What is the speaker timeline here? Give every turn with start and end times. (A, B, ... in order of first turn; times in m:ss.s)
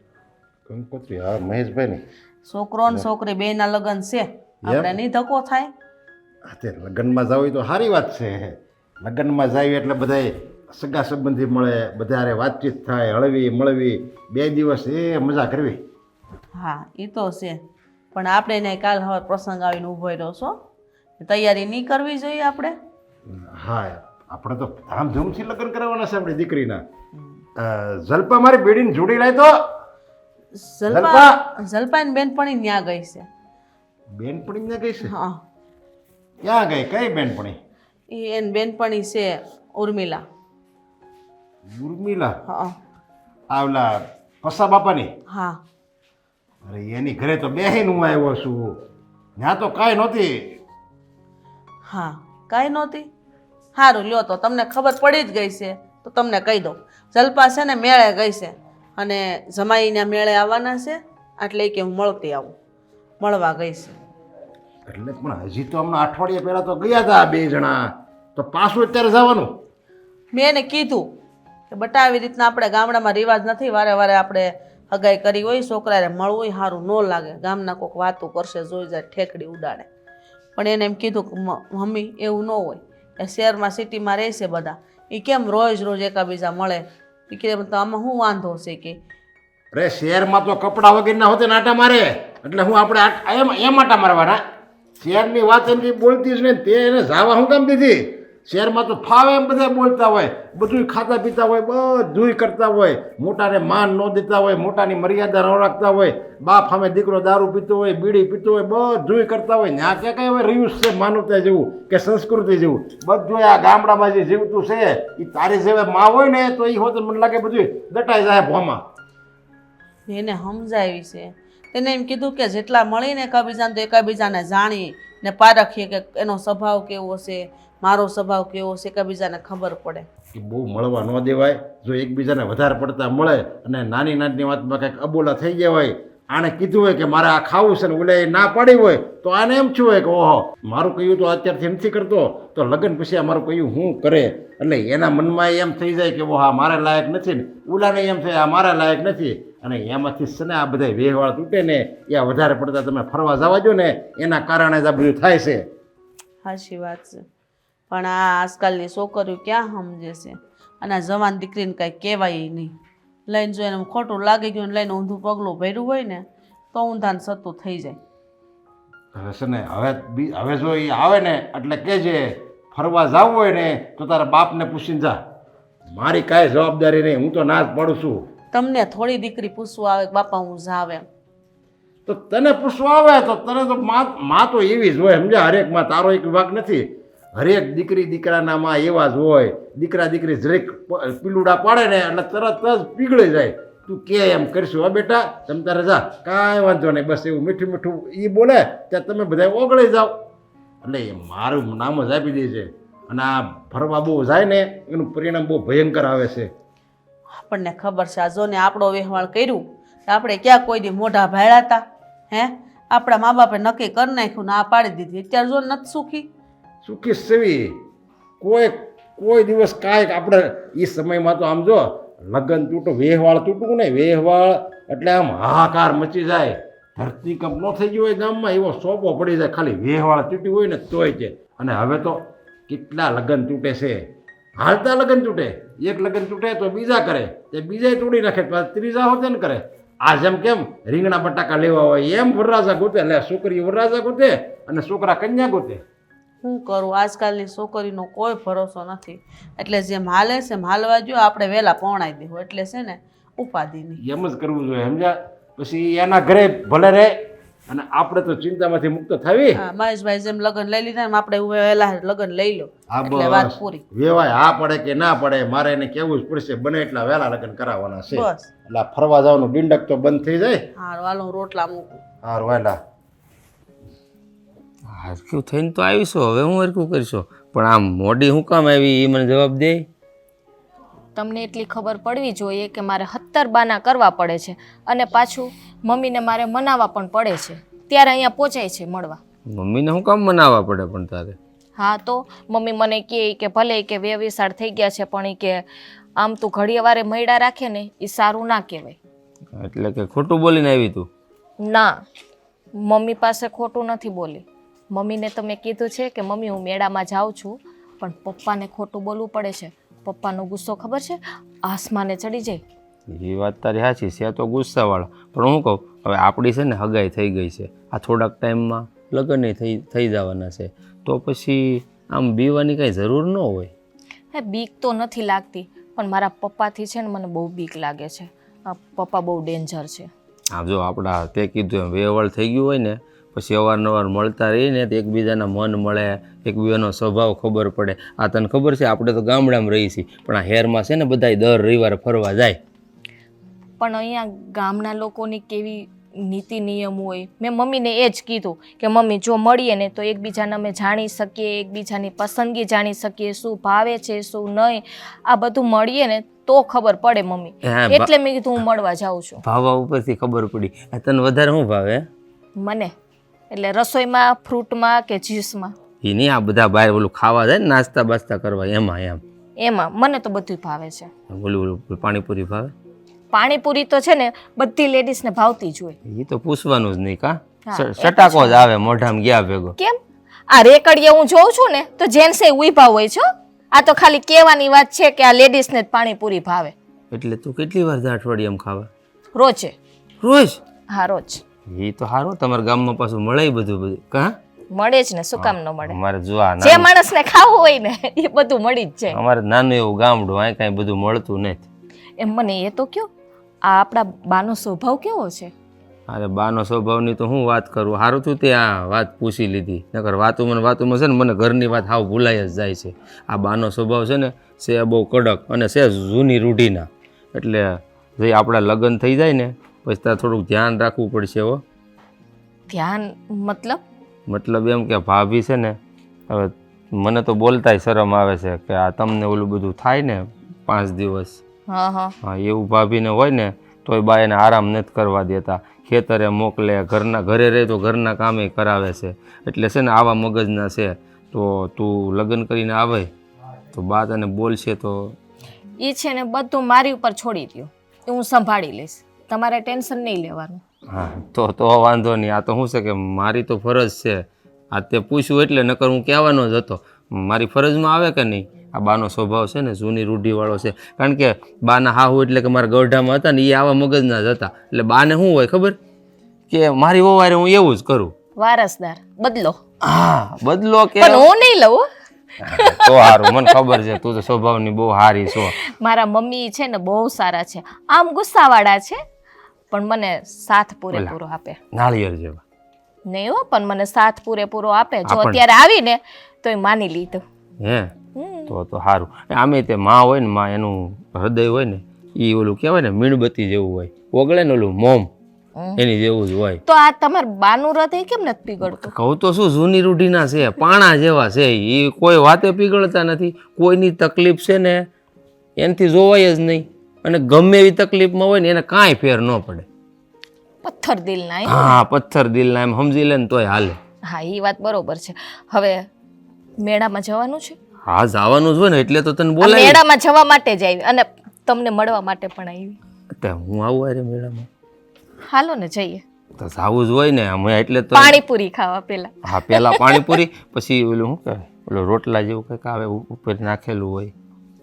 0:00.7-0:02.0 A
0:02.5-0:05.7 B
0:04.7-0:04.9 A
0:06.5-0:15.8 A
0:16.6-0:17.6 B
0:18.1-0:20.6 B
0:21.2-0:22.8 B
0:23.5-0:26.8 A
0:27.2-0:27.4 B
0:27.6-0:29.5 A
0:30.6-0:33.3 B
0:30.9-0:31.3 A
0:34.2-0:35.1 A
0:35.0-0:35.4 B
0:36.4-0:37.6 A
0:38.1-0:40.2 B
0:41.7-0:42.4 A
0:42.5-0:42.8 B
0:43.5-0:45.1 A
0:45.3-0:45.6 B
0:46.6-0:48.8 A
0:49.4-0:50.6 A
0:51.9-0:53.1 B
0:53.8-1:02.5 B
1:03.2-1:04.0 B
1:04.9-1:07.8 A
1:08.4-1:09.5 A
1:10.3-1:11.1 B
1:11.7-1:19.9 B
1:20.6-1:29.0 B
1:29.7-1:34.4 A
1:35.0-1:58.8 A
2:00.1-2:10.1 B
2:10.3-2:35.7 A
2:36.4-2:37.2 B
2:37.9-2:42.7 B
2:43.3-2:48.0 B
2:49.2-2:55.2 A
2:55.9-2:58.2 A
2:58.5-3:01.0 B
3:02.1-3:20.1 A
3:20.8-3:26.5 A
3:27.4-3:36.3 B
3:36.8-3:37.8 A
3:38.4-3:54.0 A
3:54.6-4:05.8 A
4:06.4-4:14.0 B
4:14.0-4:17.1 A
4:17.7-4:19.6 A
4:19.6-4:23.8 B
4:22.9-4:30.6 A
4:28.1-4:28.5 B
4:30.8-4:32.0 B
4:32.2-4:32.8 A
4:34.9-4:39.8 C
4:41.2-4:49.2 D
4:49.5-4:51.4 C
4:51.8-4:55.6 D
4:56.2-4:59.0 D
4:59.6-5:01.1 C
5:02.9-5:12.6 D
5:13.1-5:23.7 C
5:24.3-5:30.1 D
5:30.5-5:42.6 C
5:43.8-5:59.4 D
5:57.7-5:58.1 C
5:59.4-6:02.1 C
6:02.6-6:02.9 D
6:03.5-6:05.7 D
6:06.0-6:09.2 C
6:09.6-6:11.1 D
6:11.3-6:12.7 C
6:13.3-6:16.0 D
6:16.1-6:19.8 C
6:17.7-6:18.7 D
6:20.5-6:26.7 D
6:27.1-6:28.9 C
6:29.4-6:29.7 D
6:30.2-6:30.6 C
6:30.9-6:31.4 D
6:31.7-6:34.4 C
6:34.8-6:36.0 D
6:35.4-6:36.9 C
6:36.6-6:39.2 D
6:39.2-6:41.7 C
6:42.2-6:43.1 D
6:43.7-6:45.5 D
6:46.1-7:01.6 C
7:02.7-7:03.8 D
7:04.3-7:05.8 C
7:06.3-7:11.4 C
7:11.7-7:12.1 D
7:12.2-7:23.1 C
7:23.7-7:25.2 C
7:25.8-7:30.6 D
7:30.9-7:45.8 C
7:46.5-7:48.1 C
7:48.4-7:49.6 D
7:49.9-7:51.2 C
7:51.0-7:51.8 D
7:52.4-7:55.6 C
7:52.5-7:53.5 D
7:55.3-7:59.0 D
7:59.7-8:01.6 D
8:01.8-8:02.4 C
8:03.1-8:07.2 D
8:05.1-8:05.4 C
8:07.6-8:07.9 C
8:08.2-8:08.5 D
8:08.5-8:15.1 C
8:15.6-8:15.8 D
8:15.8-8:16.6 C
8:16.7-8:18.9 D
8:18.7-8:24.8 C
8:25.6-8:29.7 C
8:30.6-8:31.8 D
8:31.5-8:33.8 C
8:34.1-8:35.8 D
8:36.6-8:37.6 D
8:37.9-8:39.8 C
8:39.4-8:42.8 D
8:43.2-8:44.5 C
8:45.3-8:46.0 D
8:46.4-8:48.2 C
8:47.9-8:50.2 D
8:49.3-8:54.1 C